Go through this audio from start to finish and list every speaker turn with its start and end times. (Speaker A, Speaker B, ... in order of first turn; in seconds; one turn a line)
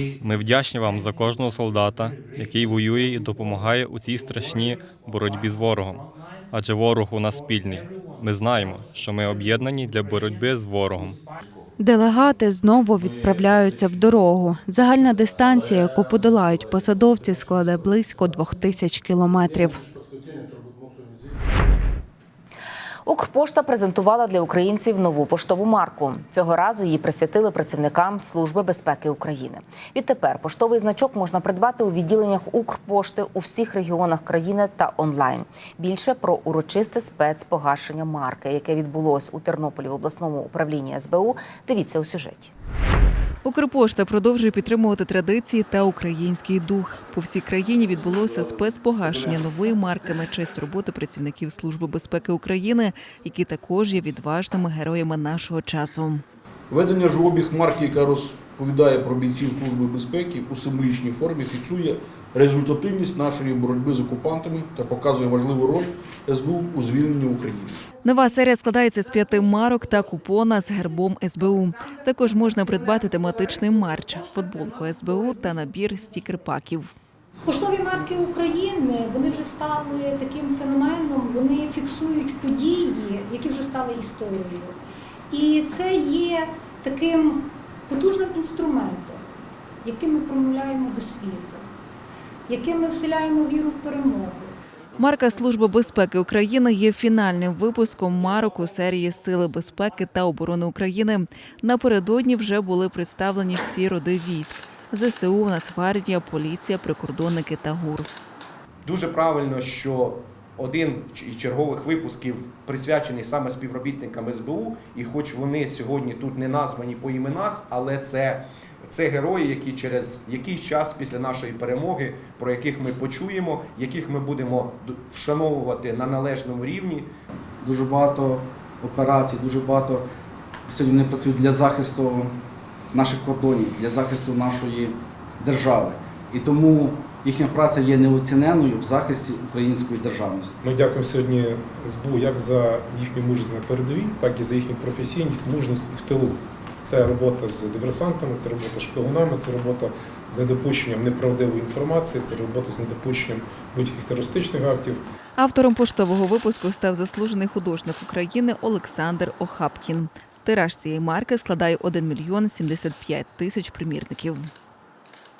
Speaker A: 0.2-11.2
Speaker B: 11.8-19.8
Speaker C: 23.1-42.5
Speaker D: 43.4-56.2
Speaker E: 56.7-67.8
Speaker D: 68.0-76.9
Speaker F: 77.5-84.8
Speaker F: 85.3-89.2
Speaker F: 89.8-91.6
Speaker F: 92.5-94.5
Speaker D: 95.0-108.1
Speaker G: 108.8-127.1
Speaker H: 127.6-130.1
Speaker H: 130.7-132.4
Speaker H: 132.9-140.5
Speaker I: 140.6-155.0
Speaker D: 155.4-164.5